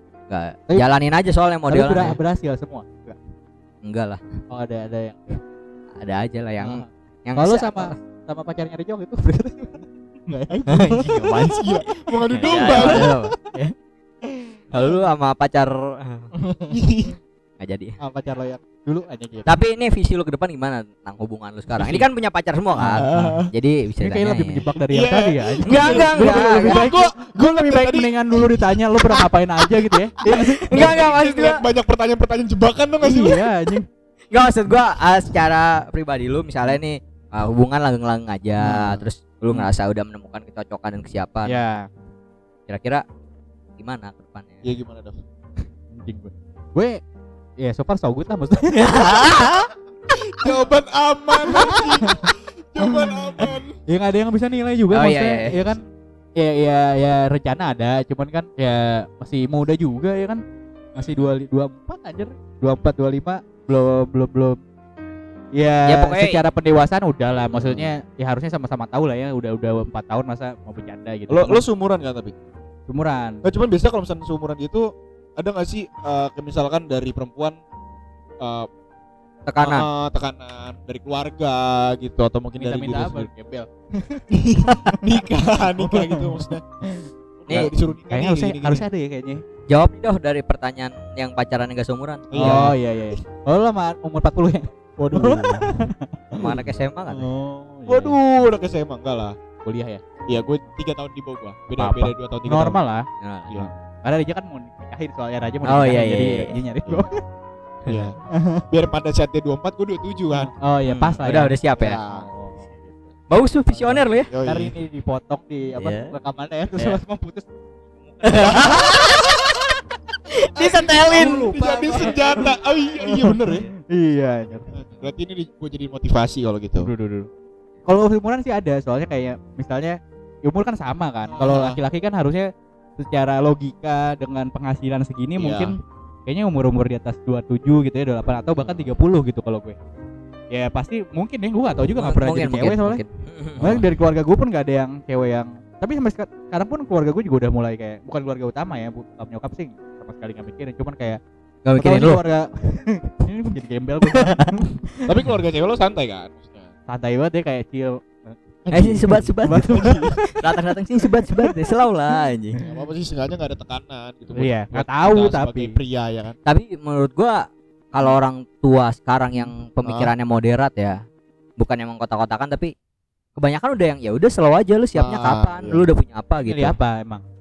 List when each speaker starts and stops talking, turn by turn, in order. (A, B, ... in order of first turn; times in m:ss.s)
0:00.3-0:02.2 A
0:01.7-0:03.2 B
0:03.8-0:04.2 A
0:04.5-0:05.4 B
0:06.0-0:07.9 A
0:06.6-0:11.5 B
0:10.7-0:11.8 A
0:11.1-0:13.2 C
0:12.3-0:13.4 A
0:12.4-0:13.7 B
0:14.7-0:16.3 A
0:16.4-0:16.7 B
0:16.7-0:17.2 C
0:17.6-0:18.0 A
0:18.0-0:19.5 B
0:19.5-0:24.7 A
0:21.8-0:22.1 C
0:22.8-0:23.4 B
0:22.9-0:23.5 C
0:24.0-0:31.0 B
0:24.8-0:29.3 C
0:25.7-0:26.9 A
0:29.9-0:33.5 C
0:30.3-0:31.6 A
0:33.0-0:33.9 B
0:34.3-0:41.6 A
0:38.6-0:39.7 B
0:41.5-0:41.9 B
0:42.7-0:43.0 A
0:43.8-0:44.6 A
0:44.6-0:45.2 C
0:45.9-0:47.0 B
0:47.6-0:49.6 B
0:48.7-0:49.7 A
0:50.3-0:53.8 C
0:51.5-0:52.3 B
0:53.9-0:55.8 B
0:54.9-0:55.7 A
0:56.4-1:00.4 B
1:01.0-1:04.6 B
1:05.6-1:11.6 B
1:05.9-1:06.4 A
1:07.5-1:07.9 C
1:11.3-1:12.3 C
1:12.9-1:13.4 B
1:13.4-1:17.6 C
1:18.4-1:18.7 C
1:19.5-1:19.9 A
1:19.6-1:23.3 C
1:22.6-1:25.0 B
1:24.3-1:26.6 C
1:25.8-1:29.4 B
1:27.5-1:28.8 C
1:29.7-1:32.7 A
1:32.3-1:32.8 C
1:32.4-1:38.2 B
1:35.0-1:35.9 C
1:36.4-1:37.3 A
1:37.9-1:39.4 C
1:39.6-1:40.0 B
1:40.3-1:42.8 C
1:41.8-1:47.2 B
1:43.2-1:43.6 A
1:45.6-1:46.6 A
1:47.9-1:48.2 C
1:48.3-1:48.6 B
1:48.7-1:50.5 C
1:50.4-1:51.6 B
1:50.8-1:52.0 A
1:51.8-1:52.3 C
1:52.1-1:53.0 B
1:53.3-1:54.3 A
1:53.7-1:57.5 B
1:54.3-1:54.7 C
1:55.8-1:56.1 A
1:58.1-1:59.3 B
1:58.2-1:59.8 A
2:00.3-2:02.4 A
2:00.6-2:03.7 C
2:00.6-2:02.4 B
2:03.0-2:04.7 B
2:04.7-2:06.9 C
2:06.8-2:07.3 B
2:07.9-2:19.8 B
2:11.3-2:11.8 C
2:15.4-2:15.8 C
2:20.5-2:23.0 B
2:22.0-2:23.8 A
2:23.6-2:31.2 B
2:31.6-2:32.2 A
2:31.8-2:35.0 B
2:34.1-2:34.4 A
2:35.1-2:36.7 C
2:36.9-2:38.4 B
2:38.7-2:40.2 C
2:38.7-2:42.6 A
2:39.4-2:40.4 B
2:41.0-2:41.7 B
2:42.6-2:46.4 C
2:44.4-2:45.8 B
2:46.5-2:51.0 A
2:49.8-2:50.1 C
2:51.6-2:52.7 A
2:53.4-2:56.8 A
2:55.0-2:55.9 C
2:56.4-2:57.2 B